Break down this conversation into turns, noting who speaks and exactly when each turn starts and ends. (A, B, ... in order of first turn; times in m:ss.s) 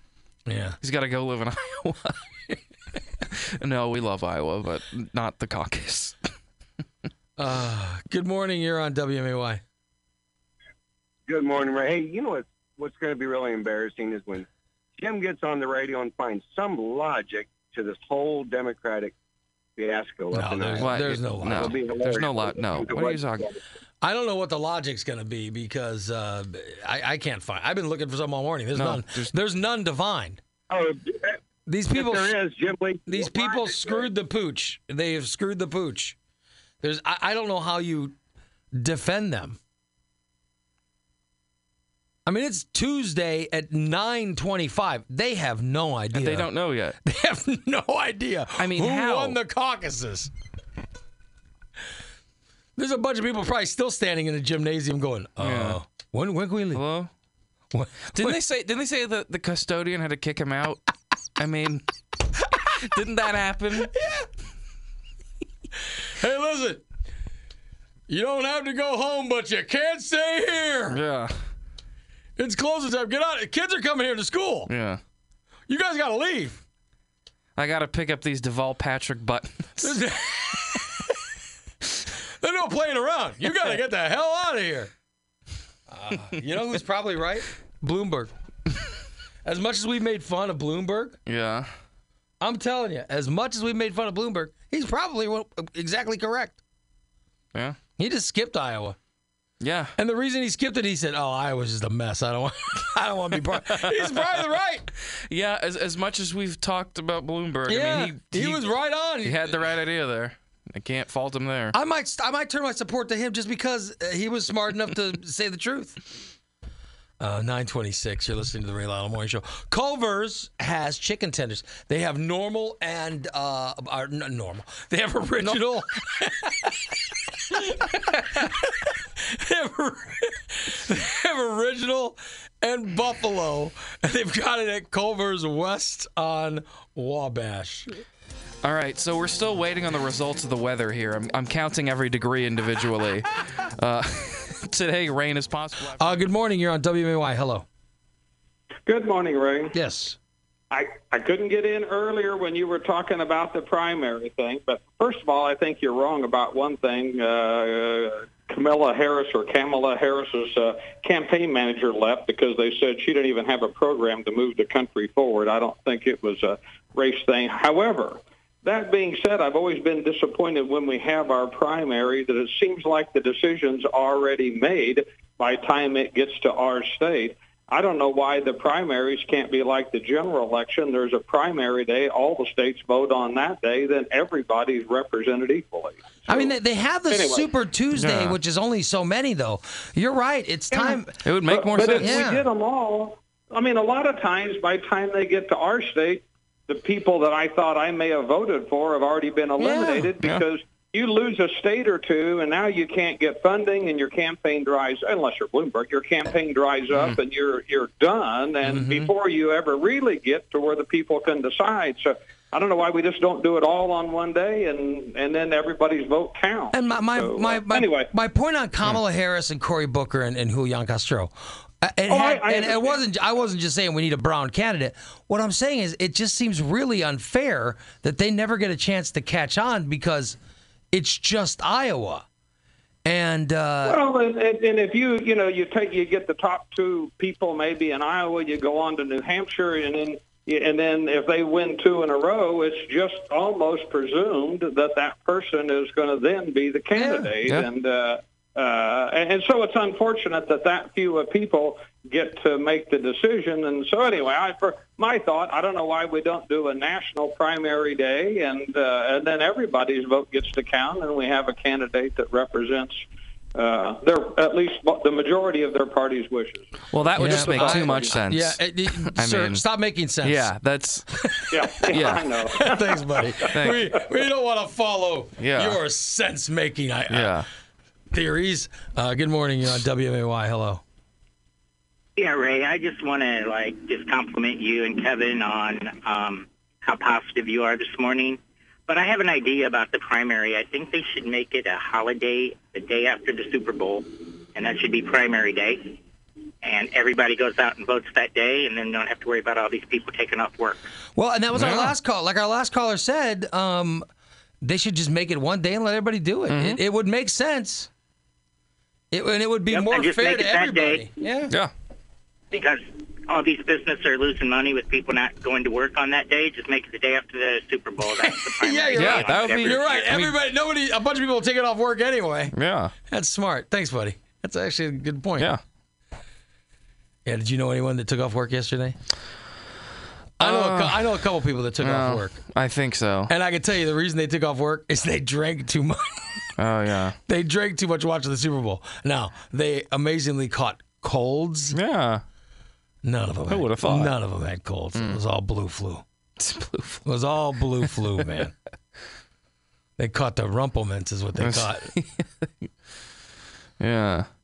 0:00.5-0:00.8 A
0:00.8-0:02.2 B
0:03.2-0:06.2 B
0:07.4-0:09.6 A
0:11.3-0:14.5 C
0:15.0-0:19.2 C
0:19.8-0:23.6 C
0:20.3-0:21.7 A
0:20.8-0:23.5 B
0:24.0-0:30.4 A
0:28.7-0:29.4 B
0:30.7-0:31.4 C
0:31.7-0:32.4 A
0:31.9-0:34.1 C
0:33.1-0:36.2 A
0:36.8-0:38.2 A
0:38.8-0:39.6 A
0:42.3-0:46.5 A
0:46.1-0:47.0 B
0:47.0-0:50.3 A
0:48.6-0:49.4 B
0:52.8-0:56.8 A
0:55.4-0:55.8 B
0:56.7-0:57.1 B
0:57.7-0:58.4 A
0:58.1-1:00.8 B
1:01.4-1:01.8 B
1:02.7-1:03.9 B
1:03.8-1:04.3 A
1:06.1-1:06.8 A
1:08.1-1:11.0 A
1:10.9-1:11.3 B
1:12.4-1:14.7 A
1:14.7-1:15.0 B
1:15.7-1:16.6 A
1:17.6-1:20.0 B
1:19.8-1:21.1 A
1:22.4-1:24.9 A
1:25.9-1:28.3 A
1:29.4-1:31.2 A
1:31.3-1:31.7 B
1:32.4-1:36.6 A
1:38.0-1:39.0 A
1:39.6-1:39.9 B
1:40.0-1:44.9 A
1:43.5-1:51.8 B
1:47.7-1:49.5 A
1:51.7-1:56.0 A
1:57.2-2:18.0 A
2:18.6-2:26.2 B
2:26.0-2:27.7 A
2:28.9-2:29.7 D
2:29.7-2:30.2 A
2:30.7-3:06.6 D
3:06.3-3:11.2 A
3:07.1-3:07.5 D
3:08.0-3:08.4 B
3:10.7-3:38.1 D
3:11.2-3:12.2 B
3:11.9-3:12.5 A
3:19.6-3:20.1 A
3:26.9-3:27.2 B
3:28.6-3:29.1 A
3:36.7-3:50.4 A
3:42.1-3:43.0 D
3:50.9-3:52.3 A
3:53.0-3:54.0 A
3:53.8-4:23.0 D
4:06.9-4:07.4 A
4:23.6-4:28.2 D
4:26.9-4:29.6 B
4:27.2-4:30.5 A
4:30.2-4:31.3 B
4:31.4-4:37.4 A
4:31.5-4:33.8 D
4:31.8-4:32.3 B
4:33.5-4:33.9 B
4:35.4-4:35.8 B
4:37.1-4:37.5 B
4:38.1-4:40.8 A
4:42.2-4:56.0 E
4:56.6-5:00.8 E
5:01.2-5:04.1 A
5:01.5-5:01.9 B
5:04.6-5:07.9 A
5:06.5-5:06.8 B
5:09.1-5:11.5 A
5:09.7-5:11.0 E
5:12.5-5:20.1 E
5:18.1-5:22.5 A
5:19.0-5:20.4 B
5:22.5-5:22.9 B
5:23.1-5:25.5 A
5:27.2-5:29.0 A
5:30.4-5:32.4 A
5:30.4-5:31.2 B
5:31.8-5:33.3 B
5:33.3-5:36.5 A
5:36.6-5:37.2 B
5:37.3-5:41.8 A
5:41.7-5:42.2 B
5:43.0-5:46.0 A
5:43.5-5:44.2 B
5:46.4-5:47.1 B
5:47.0-5:48.6 A
5:50.0-5:51.9 A
5:51.4-5:52.5 B
5:53.8-5:54.3 B